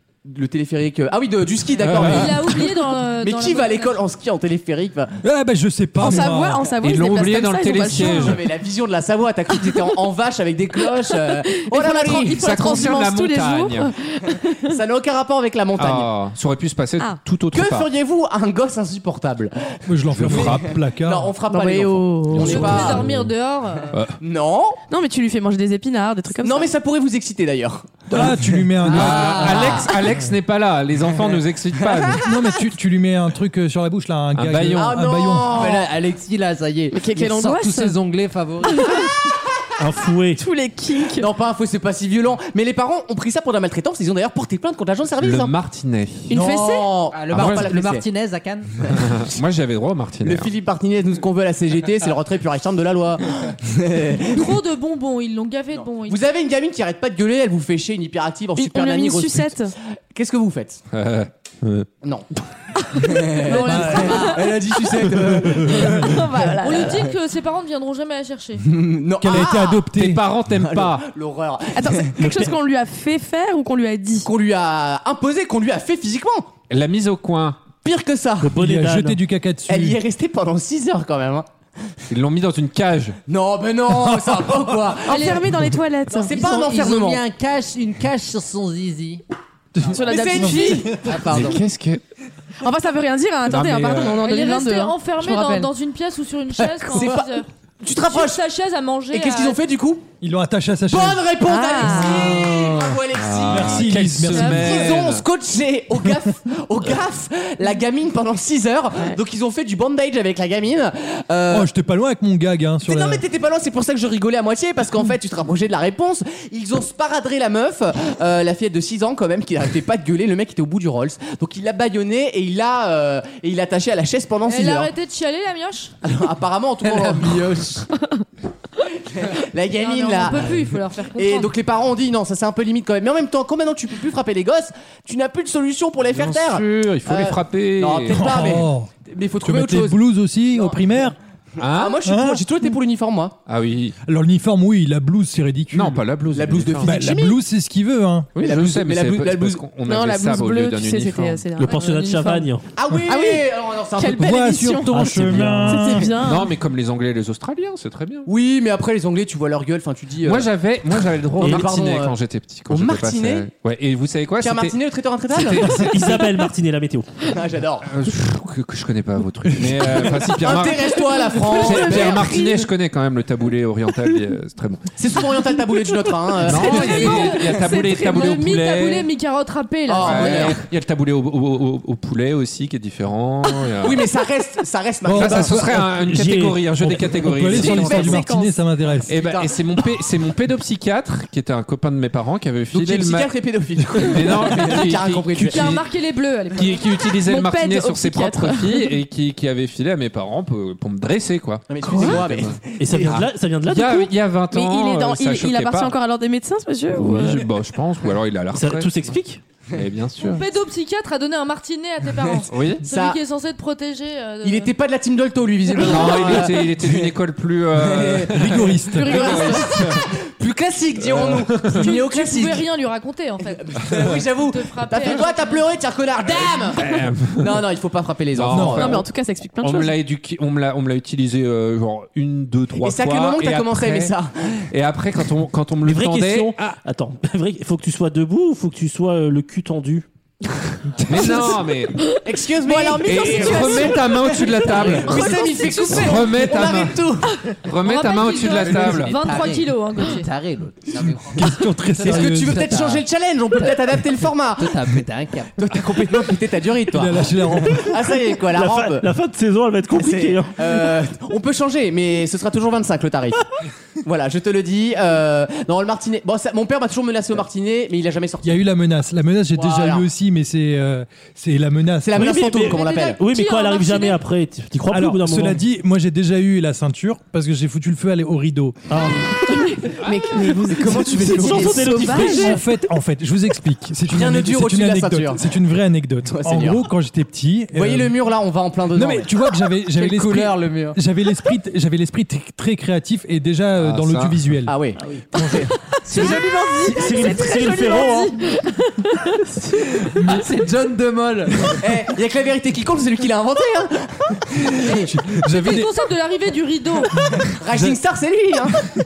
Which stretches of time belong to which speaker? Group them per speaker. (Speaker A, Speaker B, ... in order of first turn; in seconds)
Speaker A: 0.2-5.1, 8.0-12.5, 14.7-16.1, 17.5-23.1, 24.2-24.8, 26.4-28.4, 29.3-29.9, 34.8-35.9, 41.2-45.5, 46.3-48.0, 48.8-49.3, 50.2-54.6, 55.7-59.6, 60.1-60.8, 62.9-67.1, 68.6-69.8, 70.5-72.5, 74.2-76.5, 77.8-78.6, 79.7-81.5, 83.3-85.5, 86.1-87.2, 90.0-91.5, 96.9-98.4, 99.1-100.0, 100.9-111.7, 112.8-124.9, 126.0-127.8, 128.9-140.0, 140.5-140.8, 141.6-143.3, 146.3-147.4, 148.4-149.6, 152.7-154.8, 158.3-160.5, 161.4-162.2, 162.7-163.5, 164.4-165.9, 167.2-167.9, 169.9-172.6, 175.0-177.4, 179.9-180.6, 183.8-185.8, 187.5-188.3, 189.1-189.6, 192.7-195.8, 201.7-203.2, 212.8-213.2, 214.4-217.2, 217.7-222.7, 223.6-229.0, 232.8-234.6, 242.2-247.4, 252.0-255.0, 255.6-259.1, 259.9-263.4, 264.0-268.6, 269.6-270.1, 272.0-273.2, 280.7-282.2, 284.1-285.4, 286.3-286.8, 287.7-289.4, 294.7-295.7, 301.8-305.1, 307.4-308.9
Speaker B: 1.8-2.5, 6.8-8.4, 12.3-13.9, 15.8-17.9, 20.1-20.7, 22.3-23.3, 28.8-32.2, 34.4-35.0, 45.2-46.3, 47.3-47.7, 48.9-50.5, 60.9-61.9, 69.3-71.1, 76.7-77.6, 82.1-83.2, 91.3-92.0, 93.5-94.2, 103.1-105.2, 136.1-138.6, 141.6-142.0, 143.5-143.9, 145.7-147.0, 148.4-151.5, 156.1-158.3, 160.2-164.8, 165.3-166.2, 167.8-174.9, 176.4-179.1, 180.0-184.1, 185.1-188.2, 189.1-193.3, 193.9-195.8, 196.6-205.9, 206.9-209.2, 209.7-210.4, 212.5-212.8, 215.7-220.0, 221.0-221.9, 226.8-227.6, 228.3-229.1, 229.6-234.1, 234.7-236.8, 241.0-242.0, 243.0-247.1, 247.6-249.2, 293.8-294.4
Speaker C: 2.0-4.0, 22.4-24.0, 54.2-56.2, 63.5-64.4, 66.6-68.6, 94.2-99.6, 124.5-126.0, 129.7-131.5, 176.5-180.6, 195.4-196.9, 210.2-214.7, 219.1-219.8, 221.7-223.6, 224.3-225.7, 247.8-250.3, 272.7-274.2, 305.5-307.4
Speaker D: 5.2-6.7, 19.9-21.3, 28.1-29.7, 32.2-35.6, 63.6-64.1, 65.4-66.2, 69.2-70.3, 78.5-80.0, 83.9-84.7, 100.2-101.3, 101.8-102.8, 103.5-104.8, 111.5-113.2, 138.1-138.9, 139.4-141.2, 142.0-142.4, 144.1-146.0, 146.8-148.3, 154.1-156.1, 185.1-189.2, 218.3-219.3, 228.5-229.0, 251.3-252.7, 256.9-258.2, 268.4-272.4, 274.9-279.1, 282.0-288.1, 288.9-294.8, 300.1-300.5, 304.9-305.9, 307.2-308.0
Speaker E: 6.0-8.4, 10.9-14.7, 21.5-22.9, 24.9-26.7, 36.9-38.0, 38.7-39.1, 40.4-41.3, 58.6-59.7, 63.0-64.6, 65.6-67.1, 71.7-74.3, 85.0-86.4, 89.9-91.0, 92.6-95.7, 101.4-102.5, 149.8-152.5, 153.1-156.5, 171.5-172.6, 187.5-188.6, 197.2-198.9, 201.8-202.2, 204.5-207.5, 228.7-229.9, 242.6-246.1, 279.3-282.6, 295.5-300.3
Speaker F: 28.9-29.9, 35.5-39.0, 46.3-48.7, 86.3-89.2, 90.7-91.6, 126.8-127.8, 248.9-253.1, 253.6-255.6, 289.9-291.0, 300.3-301.8
Speaker G: 39.8-40.4, 78.4-79.2, 151.6-152.7, 154.9-156.0, 161.4-161.7, 165.6-167.2, 186.1-186.6, 202.8-204.1, 208.5-209.4, 235.8-240.1, 258.5-261.0, 272.1-275.6, 278.9-279.2, 280.9-282.6, 296.1-298.4